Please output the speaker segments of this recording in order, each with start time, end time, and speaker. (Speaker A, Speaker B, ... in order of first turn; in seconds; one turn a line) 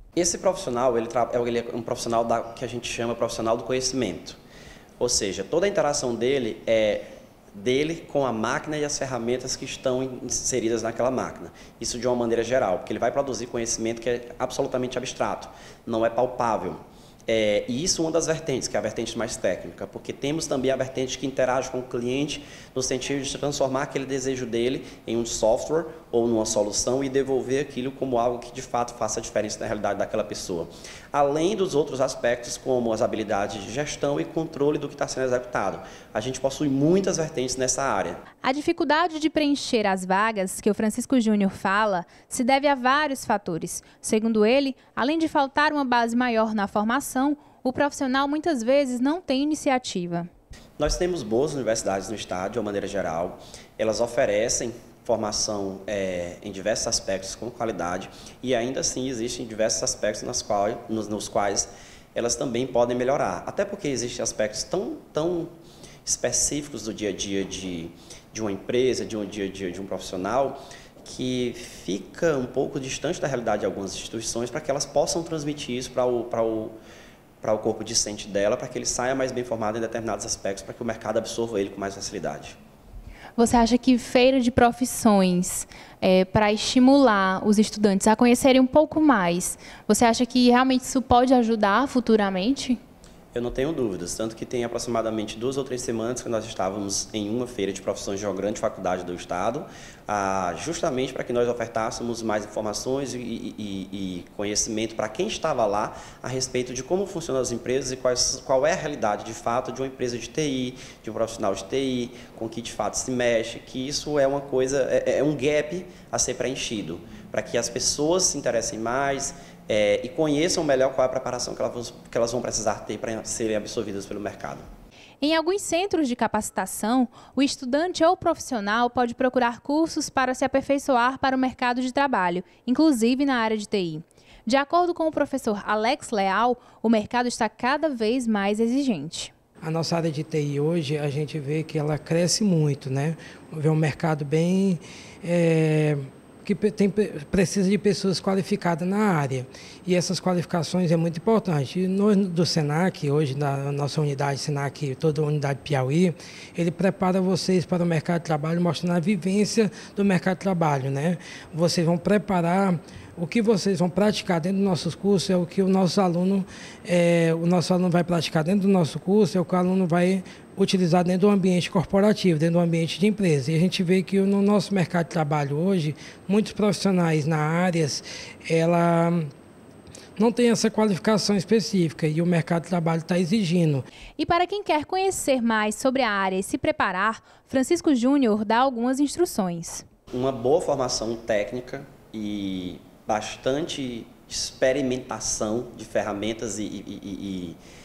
Speaker A: 0.1-4.4
Speaker A: 5.0-38.2
Speaker B: 38.4-50.3
Speaker A: 50.8-65.5
Speaker A: 66.0-76.8
Speaker A: 77.4-82.6
Speaker B: 83.4-92.8
Speaker A: 93.3-124.7
Speaker B: 125.2-139.3
Speaker C: 139.6-179.3
Speaker C: 180.2-183.9
Speaker B: 184.2-189.8
Speaker A: 190.1-197.6